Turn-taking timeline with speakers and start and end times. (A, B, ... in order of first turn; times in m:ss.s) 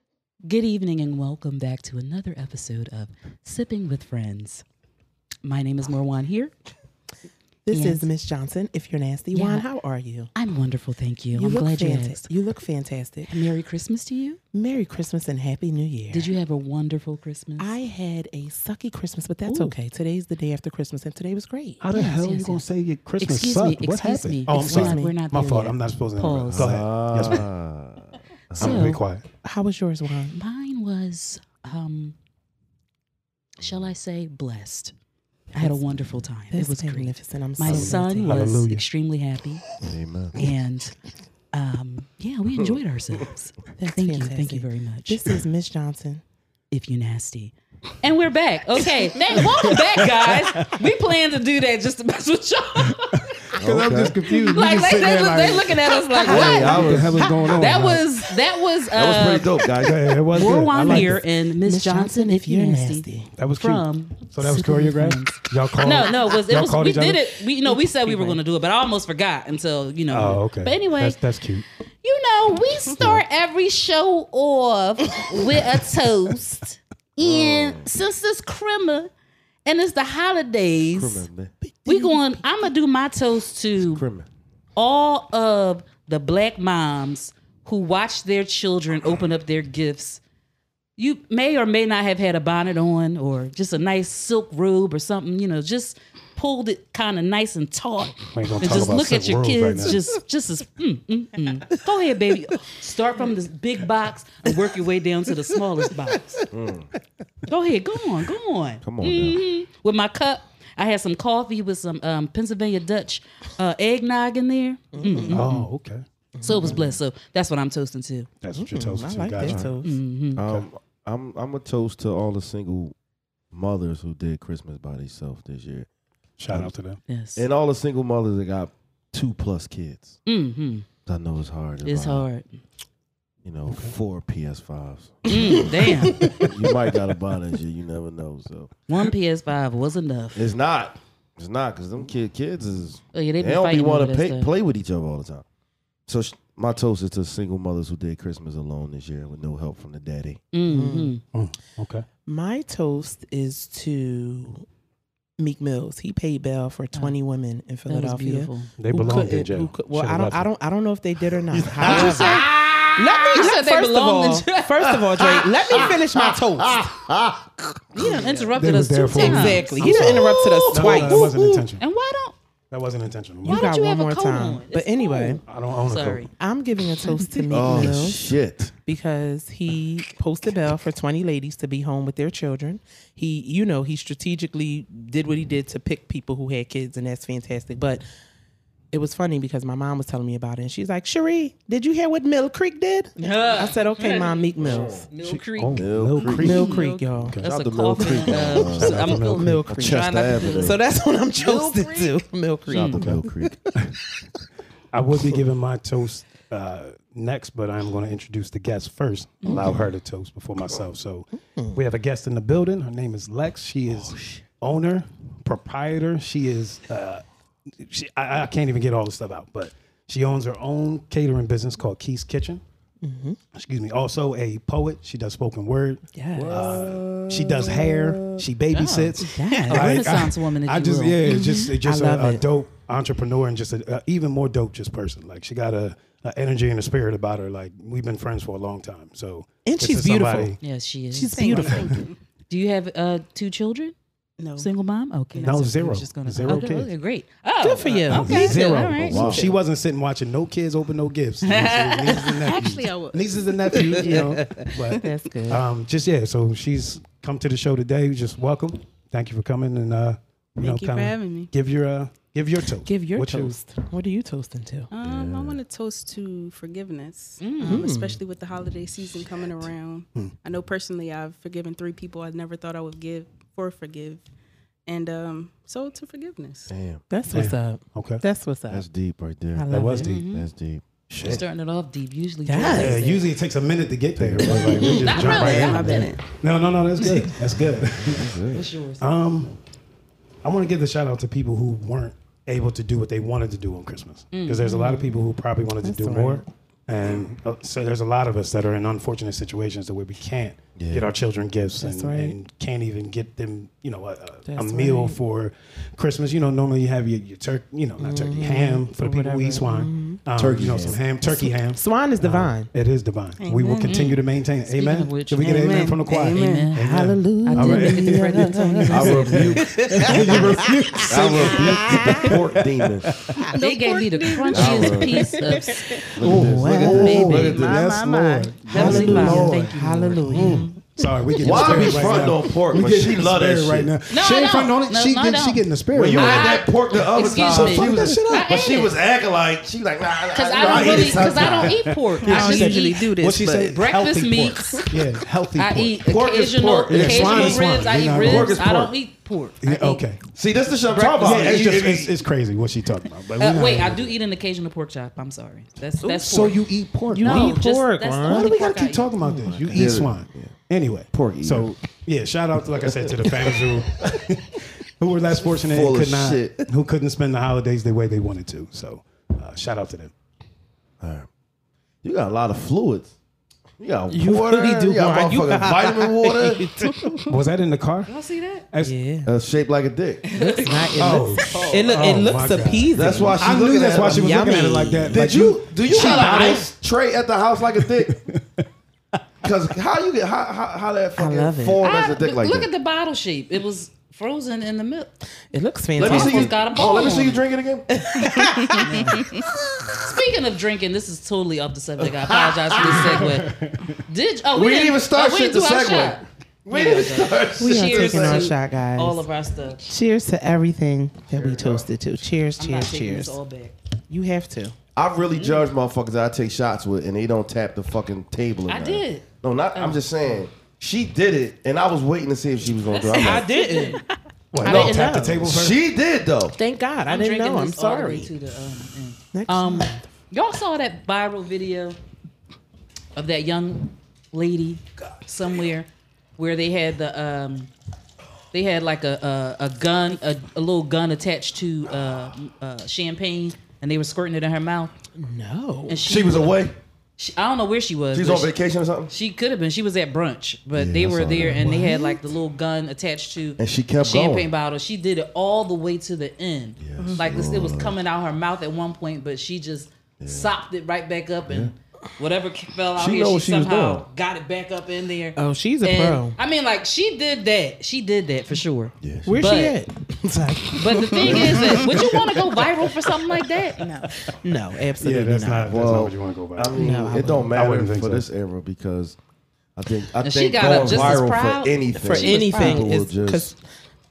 0:00.4-0:04.6 A
0:05.4-0:06.5 A
0:07.6-0:10.3 B
0:07.7-0:08.0 A
0:09.3-0:09.6 A
0:10.3-0:12.3 A
0:11.3-0:13.4 B
0:13.3-0:14.4 A
0:14.5-0:16.3 B
0:16.1-0:17.7 A
0:17.6-0:21.8 B
0:19.5-0:19.7 C
0:21.8-0:27.4 C
0:21.9-0:22.6 A
0:23.2-0:26.8 A
0:24.5-0:25.2 B
0:26.5-0:28.8 D
0:28.6-0:29.2 C
0:28.6-0:29.0 A
0:28.6-0:30.4 B
0:30.3-0:32.1 A
0:33.6-0:34.9 A
0:35.5-0:39.6 A
0:35.5-0:36.0 B
0:36.5-0:38.6 B
0:37.6-0:38.8 C
0:39.8-0:40.4 D
0:40.4-0:40.9 A
0:41.5-0:45.3 A
0:43.8-0:46.2 B
0:46.7-0:53.5 A
0:49.4-0:50.7 C
0:53.0-0:58.1 C
0:53.5-0:54.2 D
0:54.3-0:59.7 A
0:56.2-0:57.3 D
0:58.9-1:00.0 D
0:59.8-1:01.2 C
1:00.3-1:11.2 A
1:00.7-1:03.3 B
1:03.4-1:07.3 C
1:07.7-1:08.4 B
1:10.1-1:11.6 C
1:12.0-1:19.1 A
1:17.2-1:17.9 D
1:19.6-1:21.3 A
1:20.9-1:21.5 D
1:21.8-1:22.3 B
1:21.8-1:24.0 A
1:23.8-1:24.3 D
1:24.8-1:30.2 A
1:31.0-1:46.5 A
1:38.3-1:40.0 C
1:46.5-1:46.9 D
1:47.5-1:55.5 A
1:48.8-1:49.4 D
1:54.9-1:55.7 B
1:55.3-1:56.0 C
1:56.4-1:56.8 B
1:56.4-1:58.3 A
1:58.4-1:59.7 C
1:58.6-2:00.0 B
1:59.4-1:59.7 D
1:59.8-2:00.4 A
2:00.4-2:02.9 D
2:03.5-2:05.9 D
2:06.4-2:07.0 C
2:07.1-2:07.4 A
2:07.4-2:10.2 D
2:10.2-2:10.8 A
2:11.0-2:12.2 D
2:11.8-2:12.6 A
2:13.4-2:18.7 D
2:13.7-2:13.9 C
2:15.2-2:16.3 A
2:15.3-2:16.5 B
2:18.9-2:20.5 A
2:20.3-2:25.4 D
2:23.1-2:24.5 A
2:26.1-2:30.4 D
2:30.5-2:31.2 A
2:30.6-2:31.1 B
2:31.3-2:32.0 C
2:32.3-2:34.6 B
2:35.4-2:46.9 B
2:37.9-2:38.7 A
2:38.8-2:40.5 C
2:41.5-2:43.5 D
2:41.8-2:44.9 A
2:45.0-2:48.2 D
2:47.9-2:49.8 A
2:48.0-2:48.4 B
2:48.6-2:51.8 C
2:49.1-2:51.6 B
2:49.8-2:51.5 D
2:51.8-2:52.4 A
2:52.7-2:53.7 C
2:53.4-2:55.4 B
2:53.4-2:56.3 A
2:55.4-2:56.3 C
2:56.4-2:58.2 B
2:57.0-2:57.9 A
2:57.5-2:58.7 D
2:58.8-3:08.0 B
3:08.9-3:15.1 B
3:13.2-3:20.8 A
3:14.6-3:15.1 D
3:15.2-3:17.5 C
3:15.7-3:16.8 D
3:16.3-3:17.4 B
3:17.4-3:19.2 D
3:18.0-3:24.0 B
3:18.8-3:19.6 C
3:19.7-3:20.8 D
3:21.4-3:21.7 D
3:21.5-3:22.1 A
3:22.7-3:23.0 A
3:22.7-3:23.5 D
3:24.9-3:37.2 C
3:29.5-3:29.8 D
3:31.5-3:31.8 B
3:34.0-3:34.4 D
3:37.7-3:42.6 C
3:43.0-3:43.4 B
3:43.5-4:00.6 C
3:46.1-3:46.8 B
3:46.4-3:48.4 D
3:48.7-3:51.7 A
3:49.2-3:50.0 B
3:51.2-3:52.4 B
3:59.6-4:00.6 B
4:00.6-4:01.9 A
4:01.1-4:02.0 B
4:01.3-4:02.1 E
4:01.6-4:01.9 C
4:02.5-4:03.9 A
4:04.4-4:04.7 E
4:04.6-4:09.3 A
4:05.3-4:05.6 E
4:05.4-4:06.9 C
4:07.6-4:08.6 B
4:08.1-4:23.5 C
4:09.0-4:09.5 D
4:09.1-4:09.5 B
4:11.4-4:12.5 A
4:12.4-4:14.2 E
4:13.7-4:15.6 B
4:20.6-4:21.5 E
4:22.8-4:24.9 B
4:24.9-4:34.2 E
4:25.0-4:25.6 D
4:27.4-4:27.9 A
4:27.6-4:28.2 B
4:34.8-4:36.7 E
4:36.7-4:37.0 D
4:37.1-4:38.8 B
4:37.3-4:38.2 C
4:38.7-4:40.8 D
4:39.5-4:40.1 B
4:39.7-4:40.2 C
4:40.0-4:40.5 A
4:41.1-4:41.4 C
4:41.2-4:43.2 A
4:42.5-4:42.9 B
4:42.6-4:48.4 C
4:44.2-4:45.0 D
4:44.5-4:45.3 B
4:44.8-4:46.2 E
4:45.0-4:46.2 A
4:47.8-4:48.7 D
4:48.5-4:49.1 A
4:49.0-4:49.6 C
4:50.4-5:23.5 C
4:54.3-4:54.7 A
4:54.6-4:55.2 B
4:55.8-4:56.4 B
5:00.8-5:01.1 D
5:01.8-5:02.3 B
5:04.4-5:05.2 B
5:08.0-5:10.2 B
5:10.4-5:11.0 D
5:11.2-5:12.7 B
5:13.4-5:14.0 E
5:13.8-5:16.8 A
5:15.4-5:16.7 E
5:16.8-5:22.3 B
5:17.4-5:19.6 A
5:18.9-5:23.1 D
5:23.4-5:26.0 E
5:23.6-5:32.4 A
5:24.5-5:25.3 D
5:26.1-5:27.9 D
5:26.2-5:27.4 B
5:26.2-5:38.5 C
5:28.7-5:30.7 B
5:31.4-5:33.9 D
5:34.1-5:38.9 A
5:35.9-5:41.8 D
5:40.3-5:43.0 A
5:40.7-5:46.0 C
5:42.2-5:43.8 E
5:43.7-5:44.8 A
5:45.6-5:50.0 A
5:46.0-5:49.0 D
5:46.9-5:48.6 C
5:49.6-5:50.2 C
5:50.3-5:52.2 D
5:50.9-5:51.7 A
5:51.2-5:54.1 C
5:53.4-5:56.6 A
5:56.0-5:56.4 B
5:56.2-5:57.6 C
5:57.1-5:58.5 B
5:57.2-5:59.1 A
5:58.2-6:10.1 C
5:59.2-6:00.0 B
5:59.5-6:00.6 D
6:01.1-6:01.7 D
6:02.8-6:04.2 D
6:05.6-6:06.6 D
6:11.0-6:11.3 D
6:12.0-6:13.1 D
6:13.8-6:16.8 D
6:14.1-6:17.2 B
6:16.9-6:17.2 E
6:17.3-6:18.1 C
6:18.1-6:18.6 A
6:18.8-6:19.3 B
6:19.2-6:20.2 D
6:20.2-6:22.1 A
6:20.4-6:25.2 B
6:21.0-6:26.7 C
6:22.9-6:24.5 D
6:25.1-6:28.2 D
6:26.1-6:26.6 B
6:27.8-6:28.6 C
6:29.4-6:32.7 D
6:31.2-6:31.8 B
6:31.8-6:35.1 A
6:35.5-6:36.6 B
6:36.0-6:37.9 D
6:36.0-6:37.4 A
6:37.9-6:39.6 B
6:38.4-6:39.4 E
6:38.8-6:39.3 A
6:39.9-6:49.8 A
6:42.0-6:43.2 D
6:42.8-6:44.0 C
6:44.5-6:48.5 D
6:47.6-6:49.2 B
6:49.8-6:53.4 B
6:51.3-6:51.9 D
6:52.6-6:53.7 A
6:54.1-6:54.8 B
6:55.0-7:03.5 D
6:58.7-7:00.4 A
7:02.6-7:04.0 A
7:03.1-7:04.0 B
7:04.5-7:05.8 C
7:04.6-7:05.4 B
7:04.6-7:06.6 D
7:06.6-7:08.3 B
7:07.1-7:12.0 A
7:09.3-7:10.1 B
7:13.2-7:17.7 A
7:18.5-7:24.9 A
7:25.2-7:26.0 B
7:25.9-7:26.6 A
7:26.0-7:26.7 D
7:27.2-7:28.5 A
7:28.1-7:29.1 D
7:29.1-7:49.8 A
7:30.7-7:31.7 D
7:31.6-7:32.0 C
7:33.6-7:34.5 D
7:36.8-7:38.0 D
7:40.2-7:40.5 D
7:42.9-7:44.0 D
7:45.4-7:46.4 B
7:49.0-7:49.4 D
7:49.2-7:53.1 B
7:50.7-7:53.8 A
7:51.2-7:51.9 D
7:51.3-7:51.8 C
7:53.8-7:55.7 B
7:53.8-7:54.0 E
7:55.0-7:56.9 C
7:55.7-7:59.2 D
7:56.7-7:57.5 B
7:57.5-7:58.3 C
7:59.7-8:03.5 D
8:00.2-8:03.1 A
8:01.9-8:03.6 B